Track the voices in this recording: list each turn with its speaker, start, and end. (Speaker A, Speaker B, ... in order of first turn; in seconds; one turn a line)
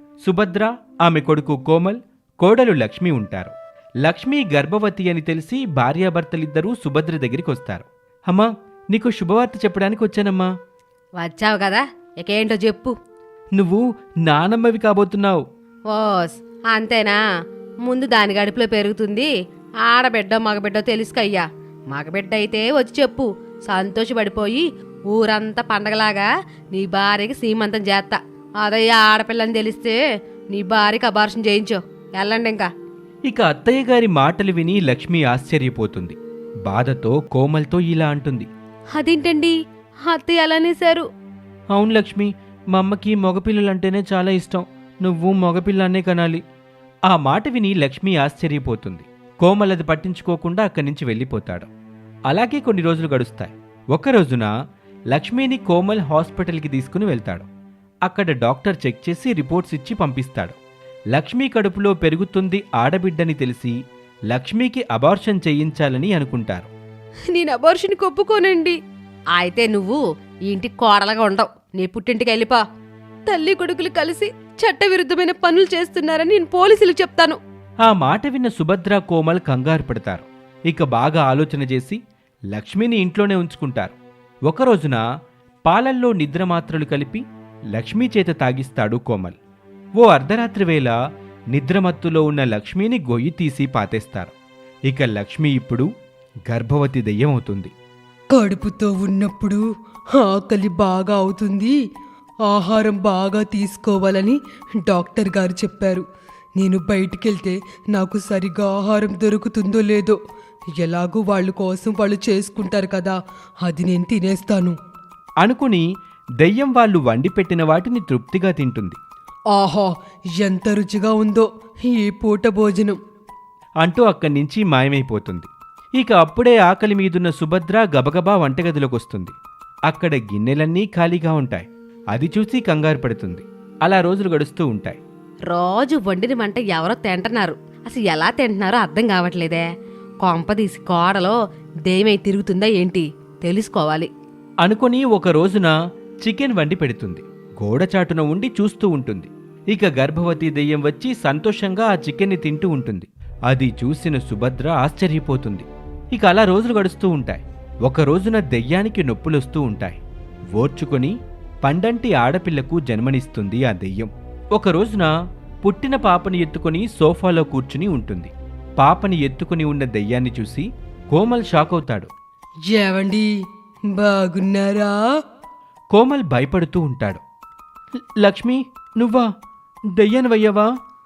Speaker A: 0.2-10.5
Speaker B: 11.2-12.9
Speaker A: 13.6-15.4
Speaker B: 15.9-17.2
Speaker B: 17.9-19.3
Speaker B: 19.8-29.9
Speaker B: 30.5-32.7
Speaker A: 33.2-38.5
Speaker B: 38.9-41.0
Speaker A: 41.7-46.4
Speaker A: 47.1-51.7
Speaker A: 52.3-54.5
Speaker A: 55.1-57.5
Speaker A: 58.0-60.6
Speaker A: 61.1-63.7
Speaker A: 64.3-66.7
Speaker B: 67.3-68.8
Speaker B: 69.4-72.6
Speaker B: 73.3-77.4
Speaker A: 77.8-82.0
Speaker A: 82.5-85.0
Speaker A: 85.7-87.2
Speaker A: 87.7-89.4
Speaker A: 90.0-90.9
Speaker A: 91.5-94.3
Speaker A: 94.9-95.9
Speaker A: 96.5-97.7
Speaker C: 98.3-99.6
Speaker C: 100.2-101.7
Speaker C: 102.5-106.0
Speaker C: 106.6-110.2
Speaker C: 110.8-114.7
Speaker A: 115.4-115.8
Speaker A: 116.4-119.0
Speaker C: 119.5-123.0
Speaker A: 123.8-129.3
Speaker A: 129.9-135.0
Speaker B: 135.5-139.6
Speaker B: 140.2-141.4
Speaker B: 141.9-144.1
Speaker A: 144.6-160.0
Speaker A: 160.5-165.1
Speaker A: 165.6-172.1
Speaker C: 172.7-173.3
Speaker C: 174.0-174.9
Speaker A: 175.9-177.2
Speaker A: 178.2-179.3
Speaker A: 179.9-180.7